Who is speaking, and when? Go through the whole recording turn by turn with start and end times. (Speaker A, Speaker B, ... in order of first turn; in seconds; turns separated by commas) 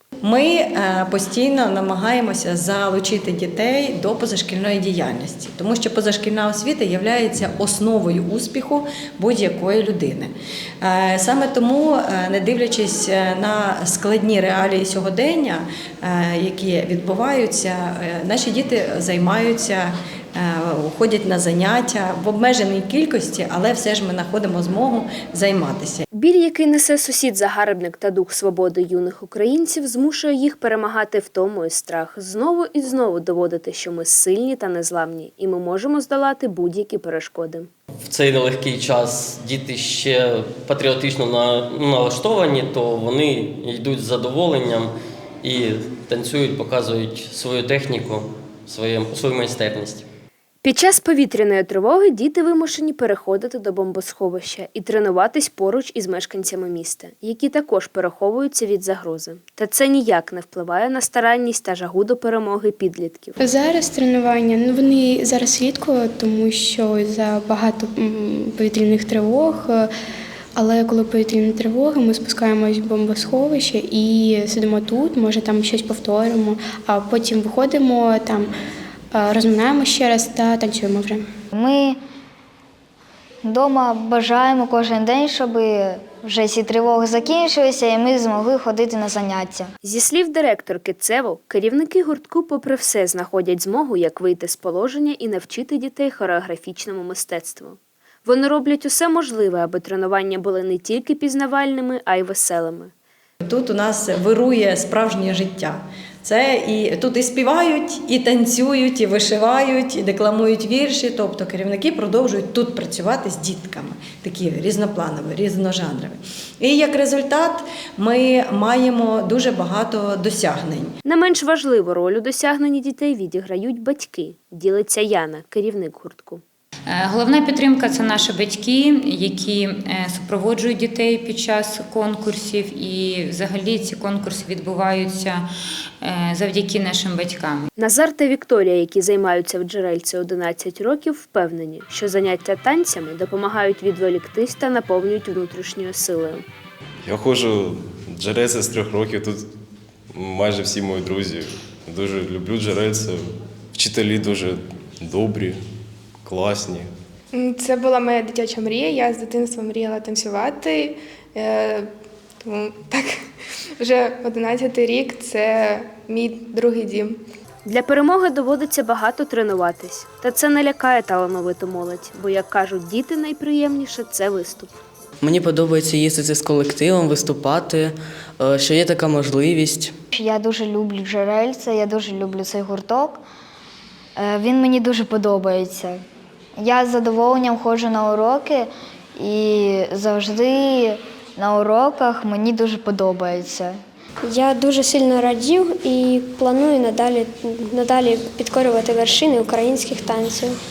Speaker A: 0.2-10.3, Speaker A: 10.8-26.1, Speaker B: 26.1-37.7, Speaker C: 38.0-50.0, Speaker B: 50.6-63.4, Speaker D: 63.4-69.9, Speaker D: 70.6-78.5, Speaker D: 79.1-81.2, Speaker E: 81.5-82.0, Speaker E: 83.4-89.7, Speaker B: 89.8-102.9, Speaker A: 103.4-120.9, Speaker B: 121.0-126.4, Speaker F: 126.9-135.4, Speaker F: 136.0-137.7, Speaker B: 137.8-146.4, Speaker G: 147.1-149.4, Speaker G: 150.1-153.2, Speaker G: 153.7-155.6, Speaker G: 156.2-156.9, Speaker H: 157.3-161.9, Speaker H: 162.4-163.1, Speaker H: 163.8-167.2, Speaker B: 167.7-174.8, Speaker I: 175.2-179.9, Speaker E: 180.1-183.2, Speaker E: 184.2-186.0, Speaker E: 186.6-193.8, Speaker J: 194.2-200.6